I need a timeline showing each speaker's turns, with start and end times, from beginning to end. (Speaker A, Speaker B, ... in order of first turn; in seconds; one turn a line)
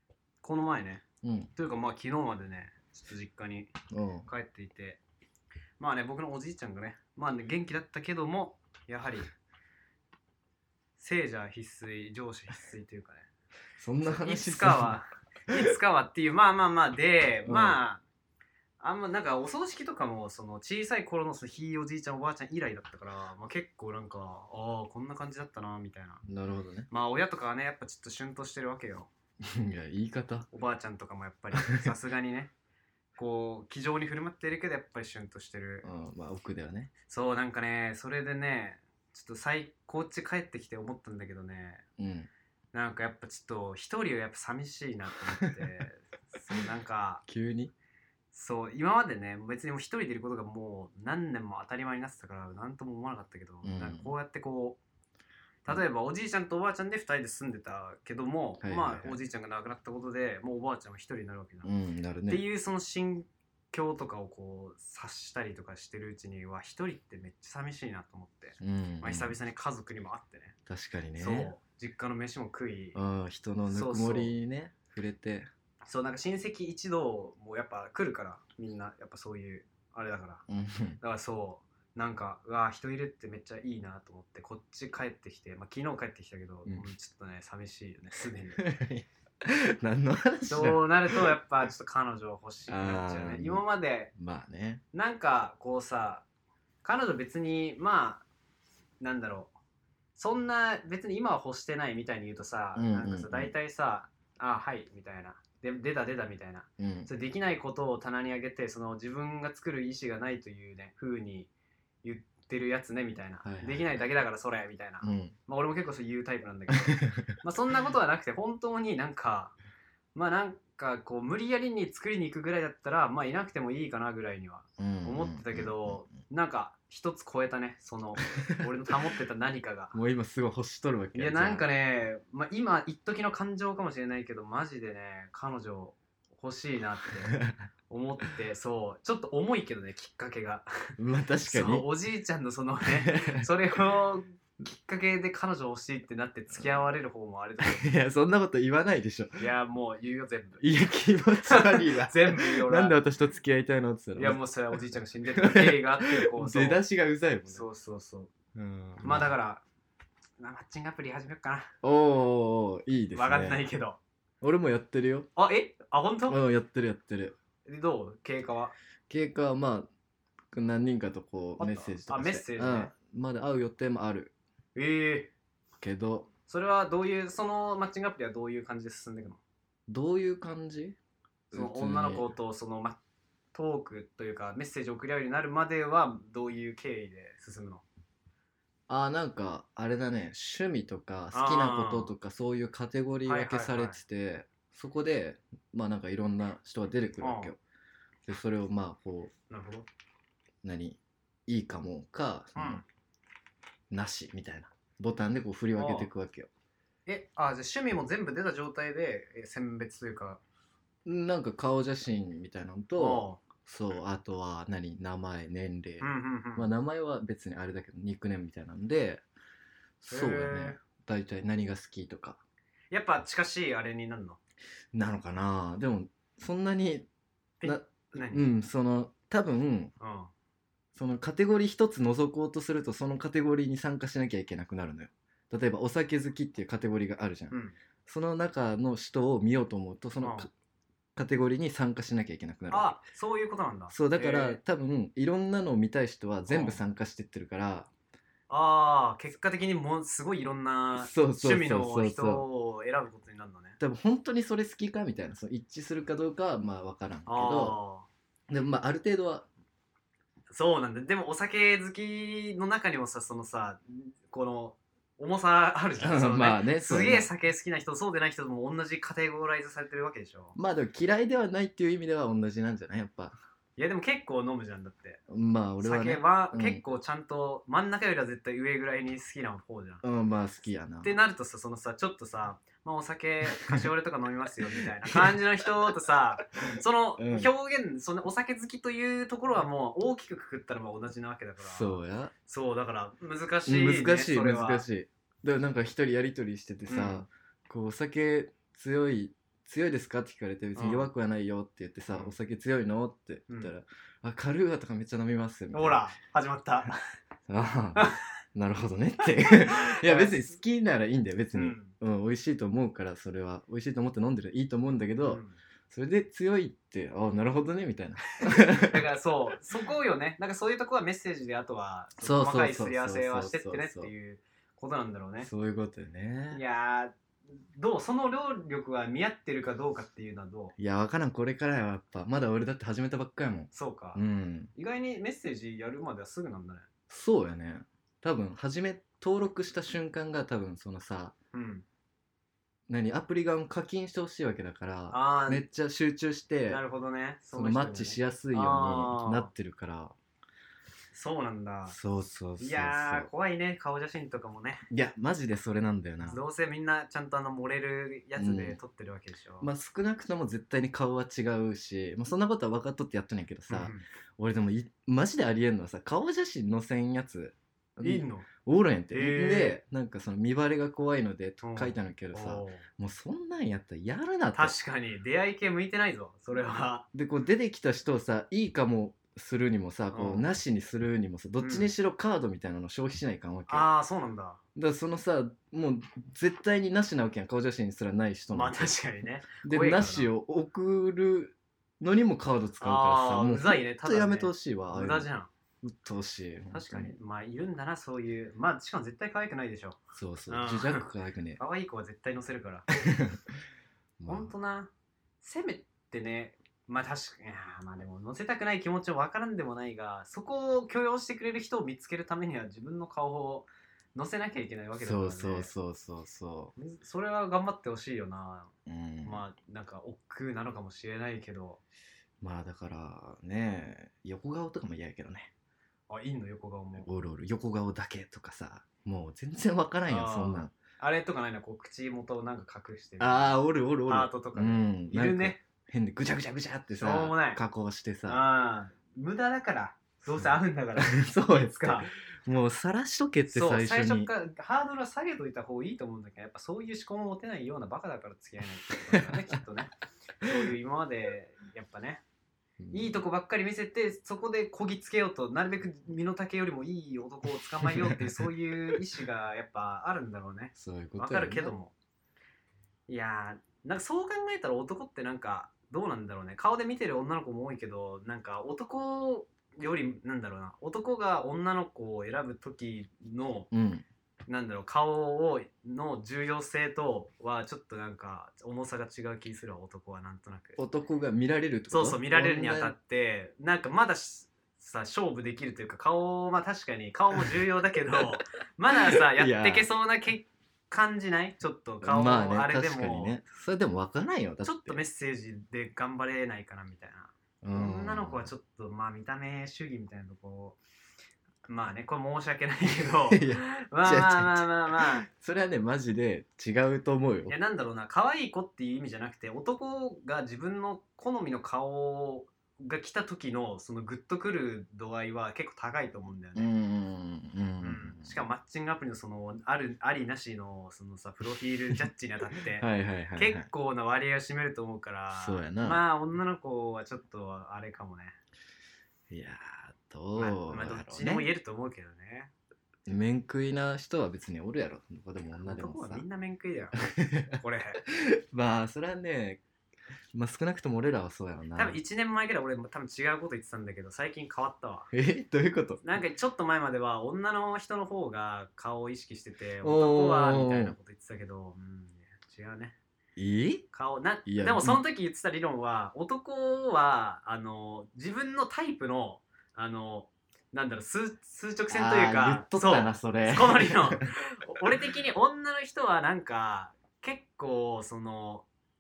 Speaker A: 0.4-1.0
Speaker B: 1.2-1.5
Speaker A: 1.6-3.7
Speaker B: 3.9-4.3
Speaker A: 4.3-5.0
Speaker A: 5.8-9.3
Speaker A: 11.0-13.3
Speaker B: 13.8-15.0
Speaker A: 14.1-18.0
Speaker B: 17.4-17.8
Speaker A: 18.8-26.2
Speaker B: 26.2-26.9
Speaker A: 26.9-29.1
Speaker B: 29.4-30.5
Speaker A: 30.5-32.5
Speaker A: 33.2-35.9
Speaker B: 35.8-36.9
Speaker A: 37.1-41.8
Speaker B: 42.0-42.3
Speaker A: 42.7-47.2
Speaker B: 47.3-47.7
Speaker A: 48.3-54.8
Speaker B: 53.6-54.1
Speaker A: 55.6-61.7
Speaker B: 58.6-59.2
Speaker B: 61.6-62.4
Speaker A: 62.3-70.5
Speaker B: 68.6-69.4
Speaker B: 70.7-71.5
Speaker A: 71.2-73.0
Speaker B: 73.0-75.5
Speaker A: 73.7-74.3
Speaker A: 75.9-80.4
Speaker B: 80.5-81.0
Speaker A: 81.0-88.8
Speaker B: 88.6-91.3
Speaker A: 90.5-94.1
Speaker B: 92.7-93.6
Speaker B: 94.1-94.8
Speaker A: 94.9-96.2
Speaker A: 96.8-98.2
Speaker A: 99.0-99.5
Speaker A: 100.2-111.5
Speaker B: 102.8-103.5
Speaker B: 106.8-107.1
Speaker A: 112.0-119.5
Speaker B: 113.4-114.0
Speaker B: 115.0-115.3
Speaker B: 117.0-117.3
Speaker A: 120.1-130.0
Speaker B: 124.8-126.1
Speaker B: 129.9-131.7
Speaker A: 131.1-140.9
Speaker B: 141.0-141.9
Speaker A: 141.4-147.8
Speaker B: 142.8-143.5
Speaker B: 147.6-149.4
Speaker A: 149.4-150.6
Speaker B: 150.6-154.8
Speaker A: 151.4-153.0
Speaker A: 154.2-156.8
Speaker B: 155.3-157.7
Speaker A: 157.5-158.3
Speaker B: 158.5-159.3
Speaker A: 159.0-159.6
Speaker A: 160.4-161.7
Speaker B: 161.8-163.6
Speaker A: 163.1-164.0
Speaker B: 164.4-165.3
Speaker A: 165.3-166.4
Speaker B: 166.3-167.3
Speaker A: 167.7-168.7
Speaker B: 169.1-169.9
Speaker B: 170.5-174.3
Speaker A: 171.6-172.9
Speaker A: 174.7-175.3
Speaker B: 175.8-176.3
Speaker A: 176.5-179.4
Speaker B: 179.9-181.0
Speaker A: 181.5-183.0
Speaker B: 181.5-182.3
Speaker A: 183.5-187.8
Speaker B: 188.9-197.6
Speaker A: 191.3-192.1
Speaker A: 193.2-194.0
Speaker A: 197.2-197.5
Speaker B: 198.2-199.3
Speaker A: 199.5-199.9
Speaker B: 200.6-202.8
Speaker A: 202.5-202.8
Speaker B: 203.9-206.5
Speaker A: 205.8-206.1
Speaker A: 207.1-210.4
Speaker B: 211.0-219.2
Speaker A: 213.0-213.4
Speaker A: 216.0-216.7
Speaker B: 220.0-222.4
Speaker A: 220.1-220.8
Speaker A: 222.9-224.4
Speaker B: 224.9-227.1
Speaker A: 227.6-228.4
Speaker B: 227.6-229.9
Speaker A: 230.0-230.3
Speaker B: 230.9-240.5
Speaker A: 240.2-240.5
Speaker B: 241.2-242.9
Speaker A: 242.7-244.6
Speaker B: 243.9-247.9
Speaker A: 246.5-246.8
Speaker A: 248.5-253.8
Speaker B: 251.0-252.4
Speaker B: 253.8-257.8
Speaker A: 257.3-258.1
Speaker B: 258.5-259.5
Speaker A: 260.5-270.6
Speaker B: 266.0-267.3
Speaker B: 270.6-273.3
Speaker A: 273.8-275.2
Speaker B: 275.3-276.8
Speaker A: 275.8-280.0
Speaker B: 280.0-281.1
Speaker A: 281.0-294.8
Speaker B: 283.6-283.8
Speaker B: 284.8-285.4
Speaker B: 287.2-287.5
Speaker B: 291.6-292.3
Speaker B: 293.6-306.0
Speaker A: 296.9-297.3
Speaker A: 300.8-301.1
Speaker A: 305.7-307.0
Speaker B: 307.5-319.0
Speaker A: 309.3-310.4
Speaker A: 311.6-311.9
Speaker A: 315.2-315.6
Speaker A: 318.4-325.5
Speaker B: 322.2-324.1
Speaker B: 325.4-326.6
Speaker A: 326.5-327.1
Speaker A: 327.8-330.7
Speaker B: 330.8-334.7
Speaker A: 333.7-334.2
Speaker A: 334.8-336.9
Speaker B: 337.1-341.3
Speaker A: 341.5-341.8
Speaker B: 342.9-346.8
Speaker A: 345.1-345.6
Speaker A: 346.7-349.5
Speaker B: 347.5-350.1
Speaker A: 351.1-352.0
Speaker B: 351.9-353.3
Speaker A: 352.6-354.9
Speaker B: 354.9-356.4
Speaker A: 356.2-359.7
Speaker B: 358.4-358.8
Speaker B: 359.6-374.8
Speaker A: 363.7-364.0
Speaker A: 368.0-368.5
Speaker A: 369.1-369.8
Speaker A: 371.6-372.8
Speaker A: 374.5-377.1
Speaker B: 377.1-383.9
Speaker A: 380.1-380.4
Speaker A: 381.6-381.9
Speaker A: 383.7-384.6
Speaker B: 384.8-388.9
Speaker A: 388.5-390.3
Speaker B: 389.5-395.3
Speaker A: 392.8-395.5
Speaker B: 395.8-397.1
Speaker A: 396.7-401.0
Speaker B: 400.1-401.6
Speaker A: 401.6-403.1
Speaker B: 403.0-403.4
Speaker B: 404.2-404.5
Speaker A: 404.2-404.9
Speaker A: 405.4-415.7
Speaker B: 415.0-416.7
Speaker A: 416.8-418.7
Speaker B: 418.9-419.4
Speaker A: 419.2-421.8
Speaker B: 422.4-425.5
Speaker A: 426.1-427.1
Speaker B: 427.0-430.7
Speaker A: 430.1-433.6
Speaker B: 433.2-438.4
Speaker A: 434.1-435.6
Speaker A: 436.9-437.6
Speaker A: 438.3-442.1
Speaker B: 440.3-444.3
Speaker A: 443.5-452.2
Speaker B: 449.1-449.5
Speaker B: 452.8-453.2
Speaker A: 452.9-461.9
Speaker B: 457.8-458.4
Speaker B: 460.8-461.8
Speaker A: 463.1-473.7
Speaker B: 473.7-474.0
Speaker A: 474.5-480.8
Speaker B: 480.8-482.9
Speaker A: 481.9-493.3
Speaker B: 489.3-489.9
Speaker B: 492.0-495.0
Speaker A: 494.6-500.8
Speaker B: 497.6-498.5
Speaker A: 501.7-505.3
Speaker B: 503.3-507.6
Speaker A: 507.5-516.7
Speaker B: 516.5-518.4
Speaker A: 517.8-528.4
Speaker B: 522.7-523.7
Speaker B: 525.3-526.0
Speaker B: 529.3-531.5
Speaker A: 530.4-532.5
Speaker B: 533.1-536.2
Speaker A: 535.6-537.0
Speaker B: 537.0-539.6
Speaker A: 537.5-538.0
Speaker B: 540.3-542.0
Speaker A: 541.8-545.1
Speaker B: 545.1-546.0
Speaker A: 546.0-553.0
Speaker B: 549.8-551.0
Speaker B: 553.4-553.9
Speaker A: 553.9-568.7
Speaker B: 554.5-555.0
Speaker B: 561.9-564.2